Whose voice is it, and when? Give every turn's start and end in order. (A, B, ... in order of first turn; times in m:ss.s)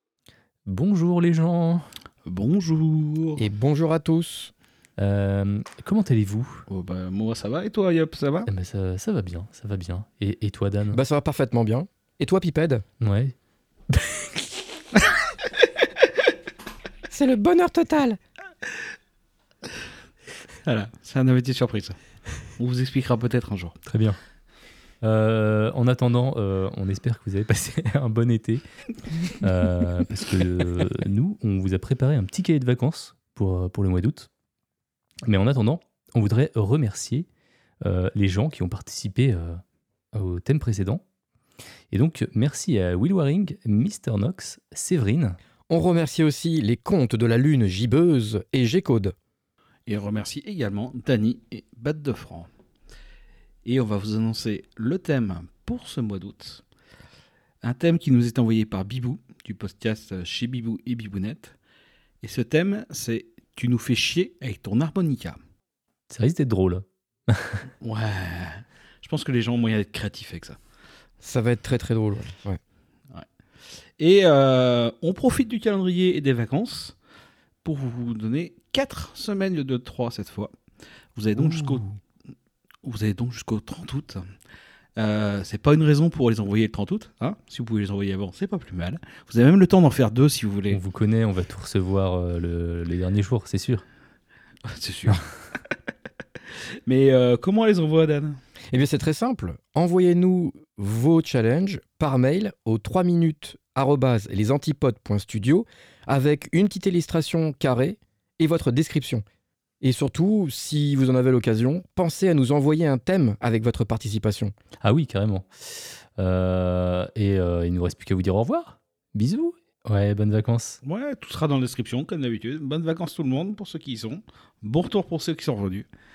0:00.7-0:01.9 A
0:02.3-0:03.4 B
0:03.4-0:04.5 C
0:05.0-0:06.6 A
0:06.7-0:08.5 B
0:08.5-0:11.0 A
0:10.9-0:12.8 C
0:13.0-0:13.3 A
0:17.1-0:18.2 C
0:20.6-0:22.0 B
0:22.6-0:23.8 B
0:23.9-0:24.2 A
0:25.0-0:28.6 A
0:29.4-0:34.3 A
0:35.3-0:37.3 A
0:37.8-0:39.6 A
0:40.1-0:41.0 A
0:41.9-0:45.4 A
0:45.7-0:49.1 C
0:49.9-0:52.5 B
0:53.6-0:56.6 B
0:57.6-1:01.6 B
1:02.2-1:05.4 B
1:06.1-1:07.6 A
1:07.8-1:10.6 B
1:11.2-1:12.6 C
1:14.0-1:17.0 B
1:17.6-1:20.5 B
1:21.2-1:21.9 B
1:22.8-1:24.2 B
1:25.0-1:30.8 B
1:30.7-1:33.8 A
1:34.6-1:35.2 B
1:36.9-1:38.4 B
1:38.7-1:49.2 C
1:49.8-1:54.5 C
1:54.8-2:00.8 A
2:00.8-2:05.9 B